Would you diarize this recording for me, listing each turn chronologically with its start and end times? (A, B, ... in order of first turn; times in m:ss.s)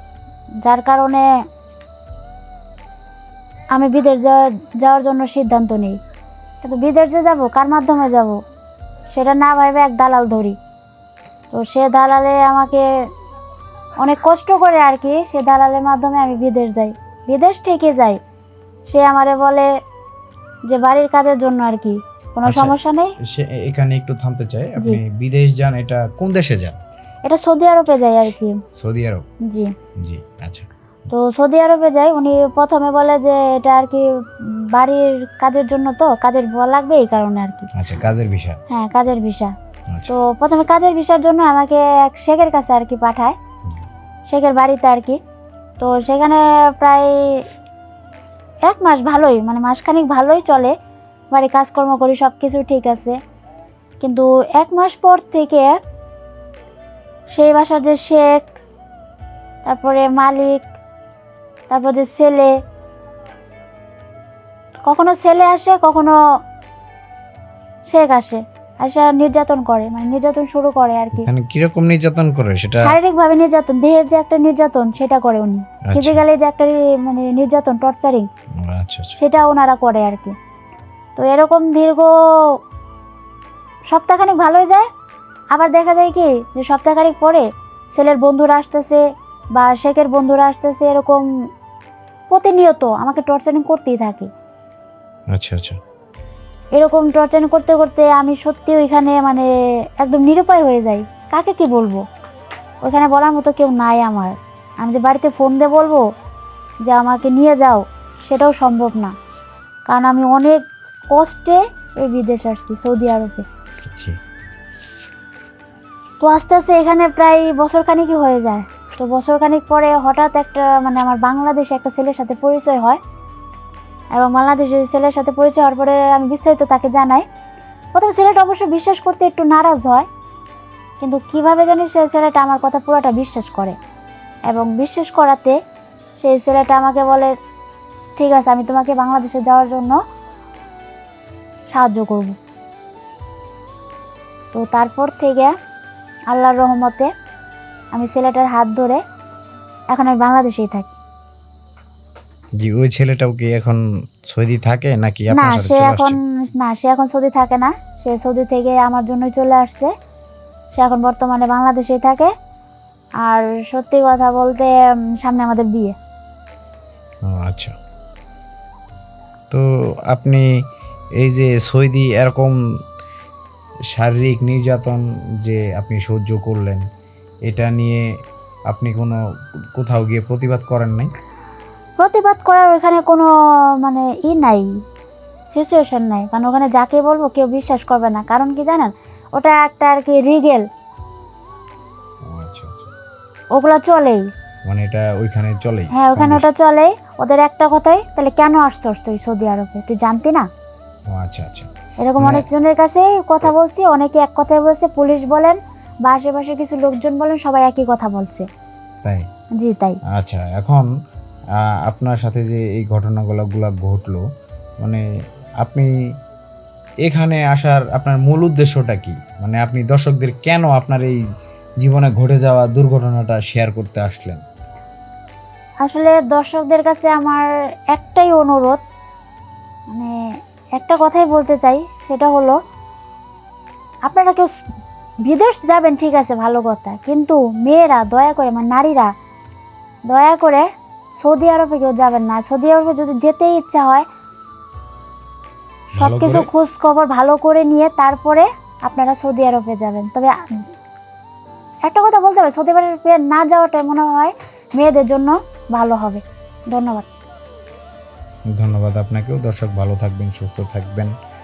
0:00.6-0:01.2 A
0:03.7-0:06.0 A
0:06.6-0:08.4 A
0:09.1-0:10.6 A
0:11.5-0:12.9 A
0:14.0-0:18.2 A
0:18.9-0:19.7 A
0:20.7-0:23.1 A
0:22.5-0:26.8 B
0:27.3-0:28.6 A
0:28.8-0:29.3 B
0:29.4-0:29.7 A
0:30.0-0:30.7 B
0:31.1-0:37.7 A
0:37.8-0:38.6 B
0:38.7-0:39.5 A
0:40.1-0:43.4 A
0:44.3-0:45.2 A
0:45.8-0:47.4 A
0:48.7-0:50.7 A
0:51.3-0:53.2 A
0:54.0-0:55.8 A
0:57.3-0:58.5 A
0:59.6-1:00.7 A
1:01.7-1:02.5 A
1:04.9-1:06.1 A
1:07.9-1:11.3 A
1:11.2-1:13.0 B
1:12.8-1:18.3 A
1:15.9-1:16.2 B
1:18.6-1:19.2 B
1:19.2-1:20.4 A
1:21.2-1:22.1 A
1:23.9-1:24.9 A
1:25.5-1:29.0 A
1:29.6-1:31.3 A
1:32.3-1:34.3 A
1:35.3-1:35.8 B
1:36.8-1:42.0 A
1:42.8-1:46.0 A
1:46.9-1:49.1 A
1:49.9-1:53.4 A
1:53.9-1:54.2 B
1:56.2-2:03.0 A
2:04.2-2:07.3 A
2:08.0-2:10.1 A
2:11.0-2:13.8 A
2:14.5-2:15.6 A
2:16.2-2:17.3 A
2:18.2-2:20.0 A
2:21.7-2:22.4 A
2:24.5-2:25.5 A
2:26.3-2:27.1 A
2:27.9-2:29.0 A
2:29.9-2:30.9 A
2:32.6-2:36.2 B
2:35.3-2:39.9 A
2:40.7-2:42.3 A
2:43.2-2:46.0 A
2:47.3-2:47.7 B
2:49.5-2:50.4 B
2:51.2-2:52.5 B
2:53.9-2:56.8 B
2:57.5-2:58.0 B
2:58.7-2:59.2 B
2:59.8-3:01.1 B
3:02.0-3:03.3 A
3:03.8-3:04.7 A
3:05.5-3:10.7 A
3:12.3-3:12.9 B
3:13.5-3:14.3 A
3:14.7-3:16.5 B
3:15.9-3:20.5 A
3:21.1-3:22.5 B
3:22.0-3:28.5 A
3:29.6-3:30.0 A
3:30.1-3:30.9 B
3:31.6-3:34.2 B
3:35.6-3:35.9 B
3:37.0-3:41.2 B
3:41.8-3:44.4 B
3:45.8-3:48.8 A
3:50.8-3:52.6 A
3:54.1-3:54.5 A
3:55.3-3:59.1 A
4:00.1-4:00.7 A
4:01.2-4:04.1 A
4:05.9-4:06.5 B
4:06.0-4:10.4 A
4:11.9-4:17.1 A
4:18.6-4:21.1 B